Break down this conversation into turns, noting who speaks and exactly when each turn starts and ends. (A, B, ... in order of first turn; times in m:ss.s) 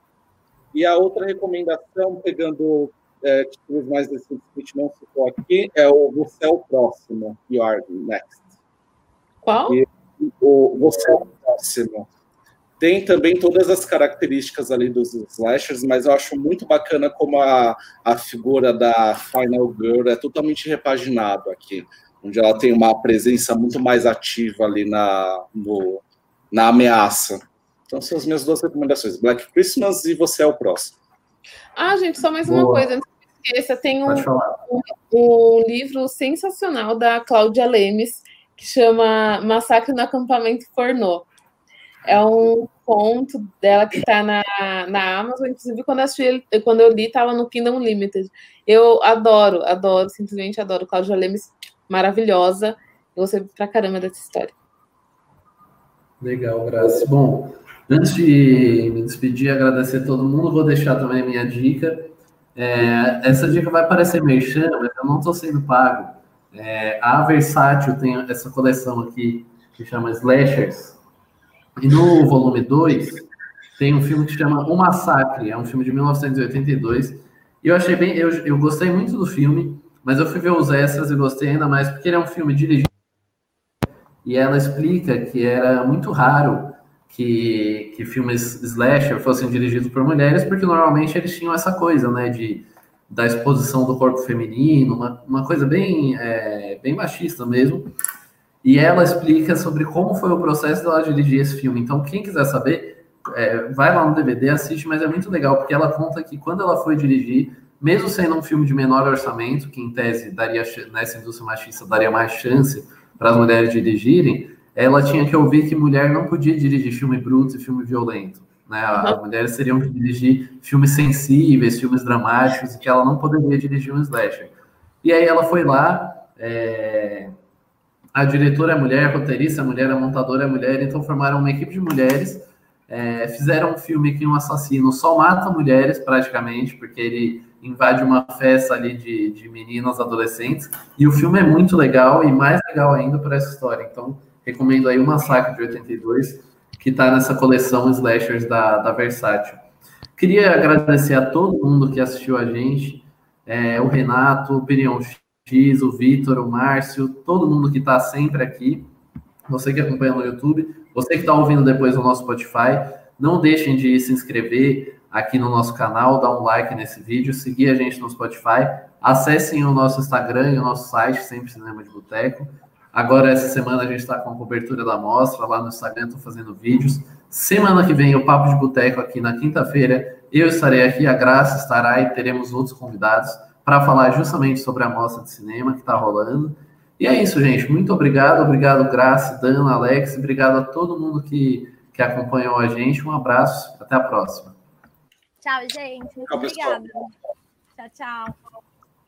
0:00.7-0:08.4 A
0:09.4-0:09.8 B
0:09.7-0:12.1 A
0:12.8-0:31.0 A
0:31.8-0:41.2 B
0:32.4-0:32.9 C
0:34.0-0:34.7 C
0:42.0-0:54.5 B
0:56.2-1:11.0 C
1:11.8-1:13.2 C
1:13.8-1:22.9 C
1:24.2-1:37.9 C
1:38.6-2:07.3 C
2:08.1-2:29.6 C
2:30.2-2:38.9 C
2:39.5-3:14.5 C
3:15.4-3:17.1 D
3:16.3-3:16.8 A
3:17.8-3:18.4 D